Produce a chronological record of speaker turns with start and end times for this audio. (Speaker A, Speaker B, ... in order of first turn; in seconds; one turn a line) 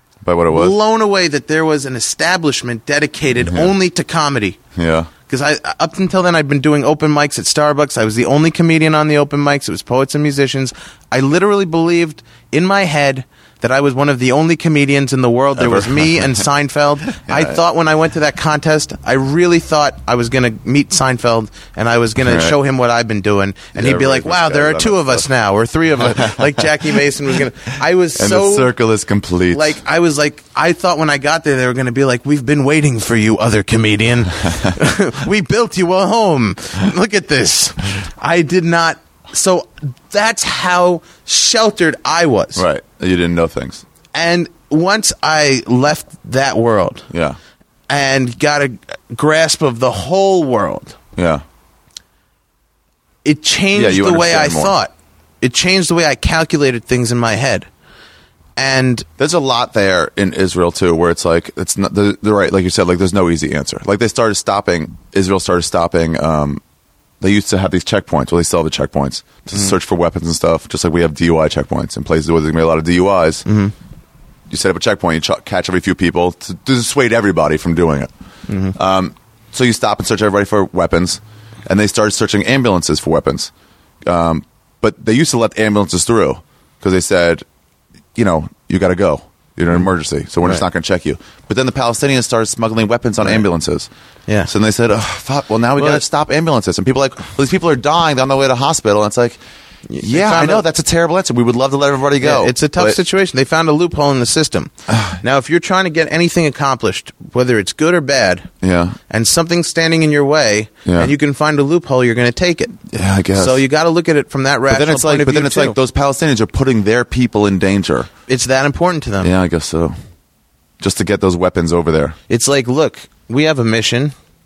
Speaker A: 0.2-0.8
Speaker B: 0.5-4.6
Speaker A: 3.4-3.7
Speaker A: 4.8-5.1
Speaker B: 5.3-28.7
Speaker A: 15.6-16.4
Speaker A: 17.2-17.6
Speaker A: 22.2-22.6
Speaker A: 23.7-25.3
Speaker A: 26.0-26.7
Speaker A: 28.1-29.8
Speaker B: 29.5-42.6
Speaker A: 42.5-43.8
Speaker B: 44.1-47.1
Speaker A: 47.1-47.4
Speaker B: 47.9-51.0
Speaker A: 51.1-51.4
Speaker B: 53.2-57.7
Speaker A: 53.7-54.8
Speaker B: 58.6-59.1
Speaker A: 59.2-66.6
Speaker A: 67.2-73.4
Speaker B: 73.5-73.7
Speaker A: 74.5-78.1
Speaker B: 78.5-78.8
Speaker A: 78.8-83.5
Speaker A: 84.0-87.4
Speaker A: 88.2-93.9
Speaker A: 94.5-99.4
Speaker B: 95.8-96.0
Speaker B: 99.9-100.7
Speaker A: 100.0-103.0
Speaker B: 102.2-108.5
Speaker A: 104.9-105.2
Speaker A: 108.6-109.0
Speaker B: 109.1-112.8
Speaker A: 110.8-111.1
Speaker A: 112.9-113.6
Speaker B: 113.3-115.8
Speaker A: 114.7-118.1
Speaker B: 118.3-119.3
Speaker A: 119.2-119.9
Speaker A: 120.8-122.2
Speaker B: 122.3-124.1